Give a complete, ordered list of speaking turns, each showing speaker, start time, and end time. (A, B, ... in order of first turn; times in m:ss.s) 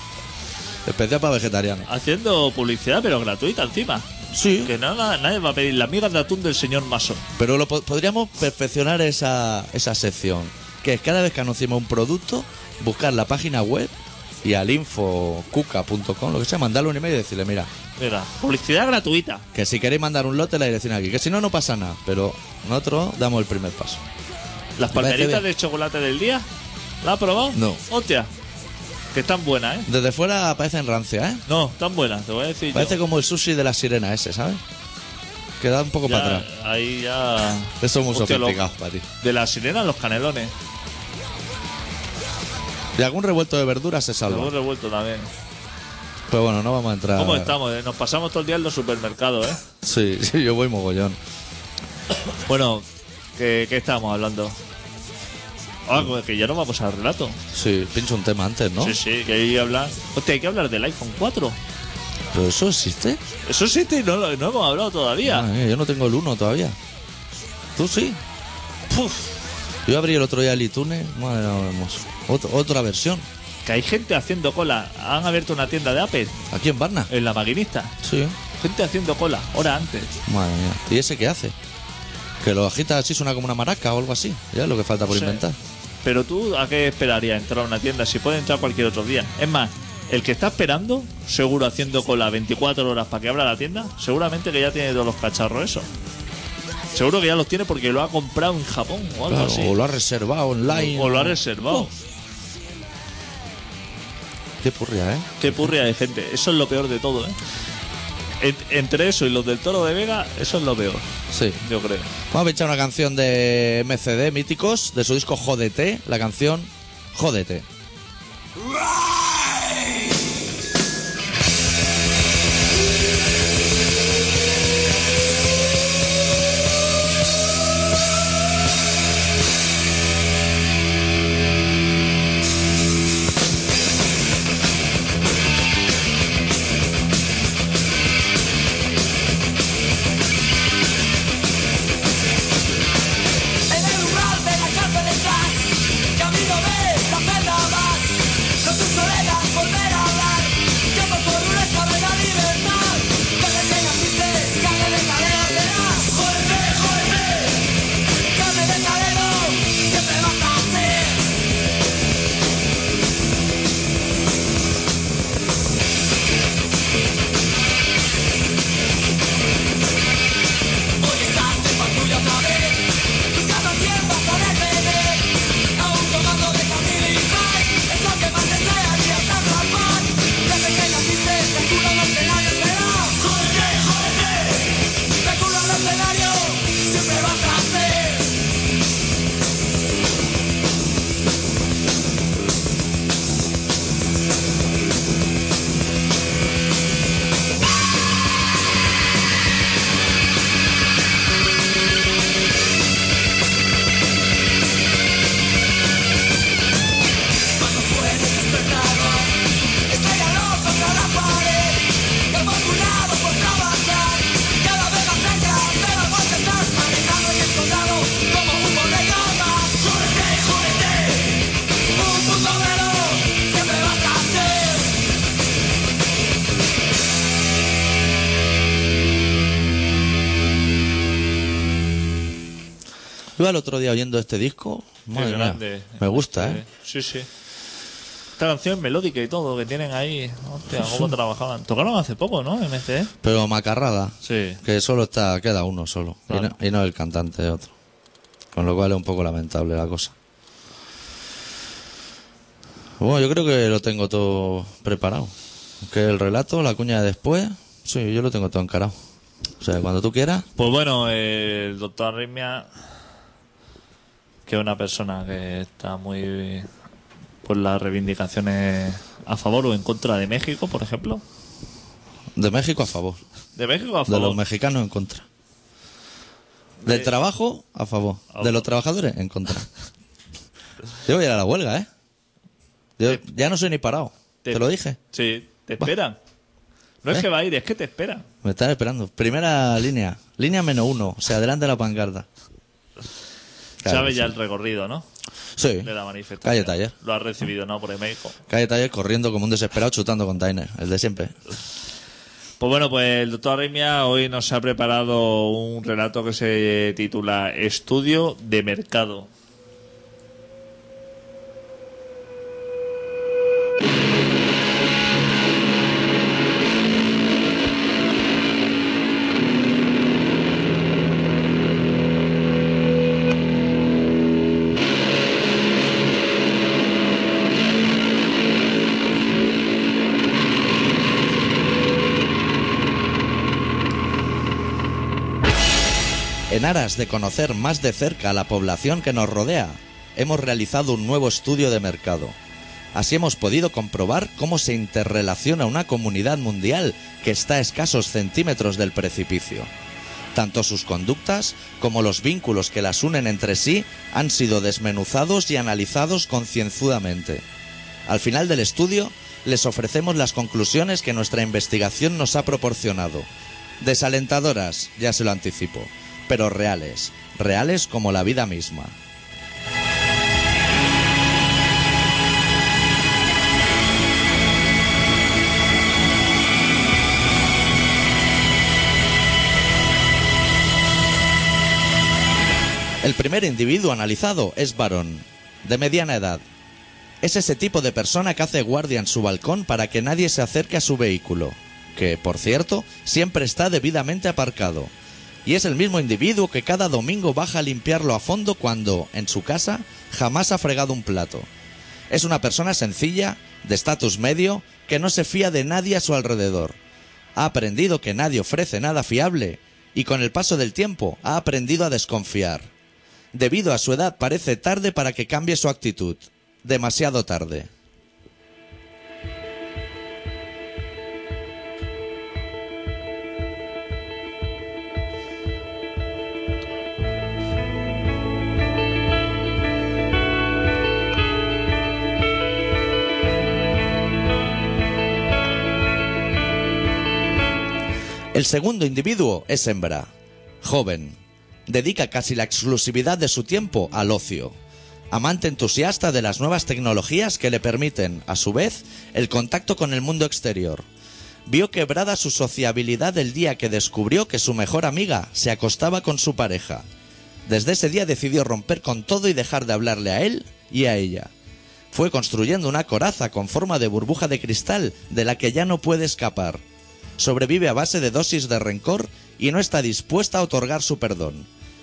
0:00.8-0:01.9 A
0:01.9-0:04.1 B
0:04.3-0:04.7 A
0:04.6-0:07.2 B
0:07.4-0:17.7 A
0:18.0-0:19.4 B
0:19.5-0:24.0 A
0:24.8-0:26.5 B
0:24.9-0:25.4 A
0:27.0-0:28.3 B
0:27.5-0:27.8 A
0:29.1-0:29.9 B
0:29.9-0:31.4 A
0:31.5-0:33.0 B
0:32.7-0:34.6 A
0:35.6-0:36.5 A
0:36.0-0:38.6 B
0:37.8-0:39.1 A
0:39.2-0:40.5 B
0:43.0-0:44.5 A
0:44.3-0:45.3 B
0:46.3-0:47.6 A
0:47.2-0:49.6 B
0:49.8-0:51.2 A
0:52.5-0:54.6 B
0:55.9-0:57.4 B
0:57.5-0:59.0 A
0:58.8-1:01.6 B
1:02.3-1:03.2 A
1:03.4-1:05.5 B
1:05.2-1:06.8 A
1:07.8-1:08.2 A
1:08.9-1:09.2 B
1:09.9-1:13.3 A
1:13.6-1:16.4 B
1:16.5-1:17.1 A
1:17.1-1:18.0 B
1:18.0-1:18.4 A
1:18.6-1:20.1 B
1:20.3-1:21.6 A
1:22.4-1:25.6 A
1:25.1-1:25.4 B
1:26.0-1:35.9 B
1:36.9-1:39.8 B
1:39.3-1:41.9 A
1:40.7-1:41.9 B
1:44.6-1:45.7 A
1:45.4-1:47.4 B
1:48.4-1:51.1 B
1:51.3-1:51.6 A
1:51.6-1:52.1 B
1:52.3-1:57.7 A
2:23.7-2:37.8 C
2:38.3-2:41.3 C
2:51.0-3:08.3 C
3:27.6-3:29.4 C
3:29.9-3:45.0 C
3:53.4-3:56.6 A
3:55.1-3:57.3 B
3:58.4-4:03.1 B
4:03.2-4:07.7 A
4:04.2-4:04.6 B
4:08.6-4:10.1 A
4:13.0-4:19.0 A
4:19.6-4:20.5 A
4:20.6-4:22.7 B
4:24.5-4:26.7 B
4:27.4-4:31.2 B
4:32.4-4:33.2 A
4:33.6-4:34.4 B
4:34.1-4:35.2 A
4:36.8-4:37.1 B
4:36.8-4:39.7 A
4:38.3-4:38.6 B
4:41.0-4:41.9 A
4:43.0-4:45.0 A
4:44.4-4:46.2 B
4:47.0-4:48.3 B
4:48.4-4:52.3 A
4:53.8-4:54.3 A
4:53.8-4:55.1 B
4:55.6-4:56.9 A
4:55.8-4:58.4 B
4:58.5-5:01.4 A
5:02.6-5:09.3 B
5:36.5-5:42.4 A
5:42.9-5:49.7 A
5:50.3-5:57.4 A
5:58.1-6:03.3 A
6:03.8-6:09.0 A
6:23.0-6:26.4 A
6:27.2-6:34.9 A
6:35.4-6:41.5 A
6:42.1-6:46.8 A
6:47.4-6:52.7 A
6:53.3-6:57.7 A
7:18.3-7:20.1 A
7:20.6-7:24.6 A
7:25.1-7:30.8 A
7:31.5-7:36.8 A
7:37.5-7:41.3 A
7:41.9-7:46.6 A
7:47.2-7:51.5 A